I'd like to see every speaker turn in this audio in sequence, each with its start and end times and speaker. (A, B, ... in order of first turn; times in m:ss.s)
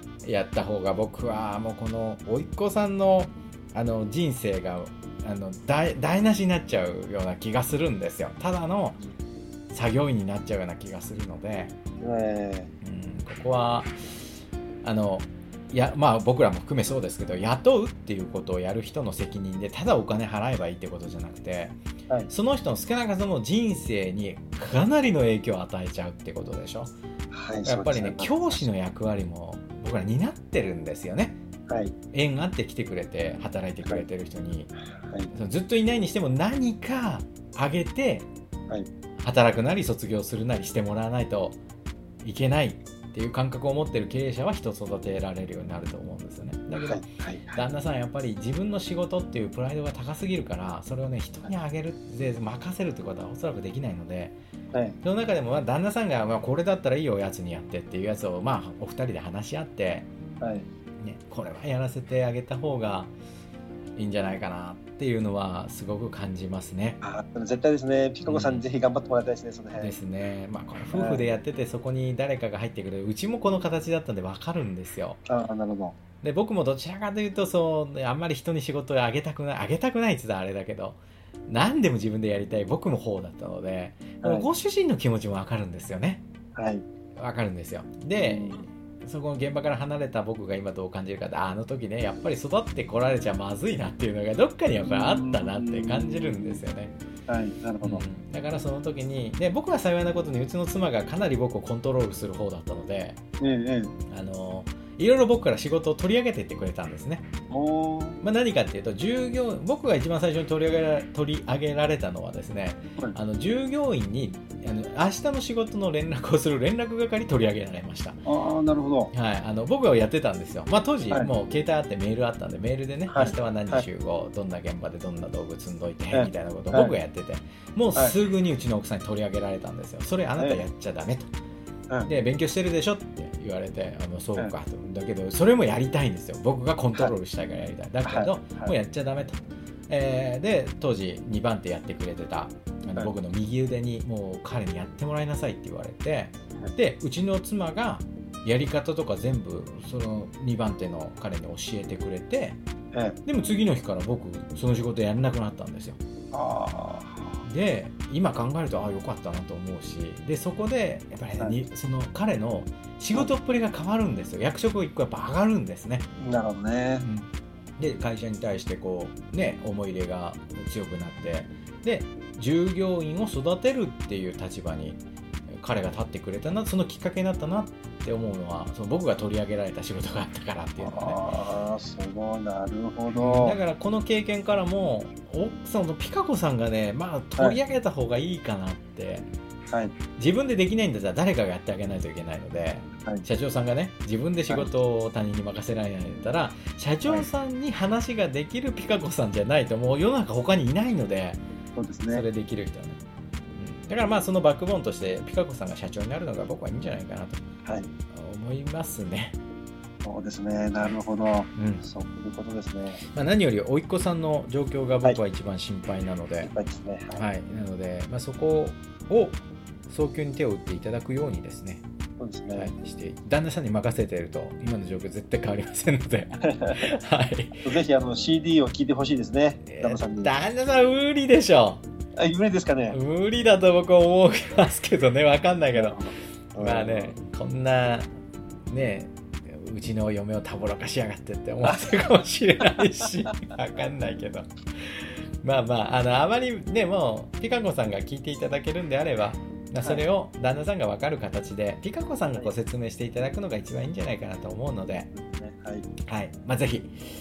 0:00.2-0:09.0 A
0:09.7-0:11.7 A
0:12.0-0:12.7 B
0:12.8-0:13.9 A
0:14.8-0:21.8 A
0:22.3-0:26.9 A
0:27.3-0:28.7 B
0:27.6-0:31.4 A
0:31.7-0:31.9 B
0:32.1-0:34.7 A
0:35.0-0:35.3 B
0:35.3-0:38.3 A
0:39.2-0:41.6 A
0:42.2-0:54.4 A
0:46.8-0:47.6 B
0:54.7-0:55.0 B
0:55.0-1:00.1 A
1:00.4-1:00.7 B
1:01.0-1:03.1 A
1:04.0-1:07.0 A
1:07.0-1:09.9 B
1:08.2-1:08.6 A
1:09.8-1:15.2 A
1:10.9-1:11.3 B
1:15.3-1:16.0 B
1:16.2-1:26.2 A
1:24.2-1:24.5 B
1:26.6-1:26.8 B
1:27.2-1:37.0 A
1:28.2-1:28.7 B
1:34.8-1:36.6 B
1:37.3-1:38.0 B
1:37.8-1:43.2 A
1:43.4-1:43.9 B
1:44.1-1:47.3 A
1:47.5-1:48.2 B
1:48.2-1:58.2 A
1:58.2-1:59.1 B
1:59.1-2:11.3 A
2:03.1-2:03.8 B
2:06.1-2:07.0 B
2:10.4-2:10.6 B
2:12.1-2:32.6 A
2:18.0-2:18.7 B
2:33.2-2:36.0 A
2:36.3-2:37.4 B
2:37.4-2:46.1 A
2:46.2-2:47.0 B
2:47.0-2:55.0 A
2:55.6-3:01.2 A
3:00.8-3:03.6 B
3:03.1-3:09.3 A
3:09.7-3:09.9 B
3:10.2-3:21.4 A
3:21.8-3:22.2 B
3:22.1-3:23.0 A
3:23.6-3:27.4 A
3:28.1-3:29.4 A
3:30.0-3:33.0 B
3:31.5-3:31.8 A
3:33.1-3:36.5 A
3:36.4-3:37.2 B
3:37.1-3:41.8 A
3:42.2-3:42.7 B
3:42.5-3:47.7 A
3:46.4-3:46.9 B
3:47.6-3:50.3 B
3:49.7-3:51.8 A
3:52.2-3:53.0 B
3:52.9-3:56.0 A
3:55.7-3:57.1 B
3:56.6-3:58.1 A
3:58.7-4:15.1 A
4:09.8-4:10.1 B
4:15.1-4:15.9 B
4:16.1-4:16.9 A